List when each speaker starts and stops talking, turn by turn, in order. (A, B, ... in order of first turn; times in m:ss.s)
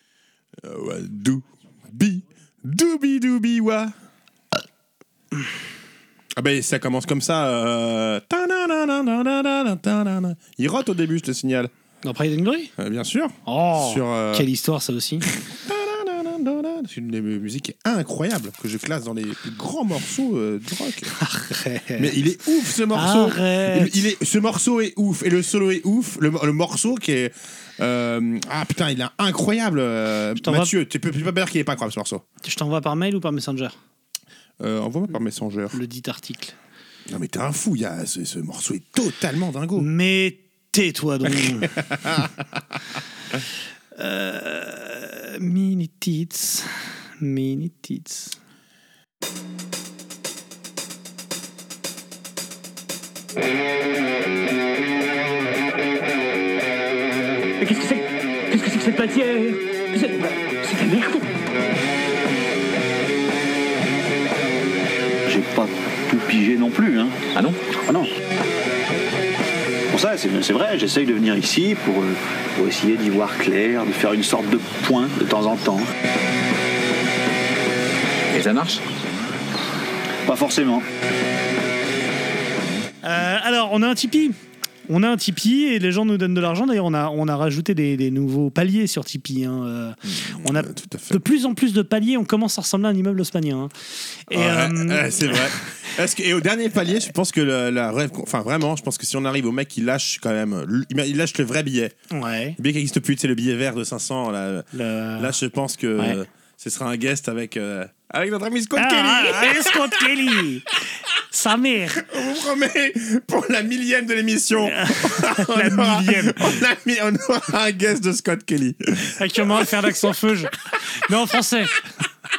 0:00.6-0:03.9 A
0:06.4-0:11.7 A
0:12.0-0:12.7 B
0:12.8-0:14.5 A
0:13.4-0:15.3 B
0:15.3-0:21.2 A
0:21.2-0:22.2 B
0:22.0-0:32.2 A
0:22.9-0:24.1 B
0:30.4-0:30.7 B
0:32.4-0:33.8 B
0:34.6-0:35.8 A
0:35.7-0:36.5 B
0:37.1-0:39.9 A
0:39.8-0:41.8 B
0:41.5-0:42.3 A
0:44.0-0:48.4 B
0:57.6-1:01.3 C
1:05.2-1:08.1 D
1:09.9-1:15.9 D
1:18.3-1:18.8 D
1:20.2-1:20.8 D
1:23.0-1:24.4 B
1:24.9-1:33.7 B
1:30.1-1:31.2 A
1:34.3-1:35.4 B
1:34.3-1:41.9 A
1:42.1-1:42.6 B
1:42.6-1:50.3 A
1:44.7-1:45.4 B
1:48.8-1:50.7 B
1:51.3-1:52.0 B
1:52.0-2:00.0 A
1:54.6-1:56.5 B
1:59.2-2:01.8 B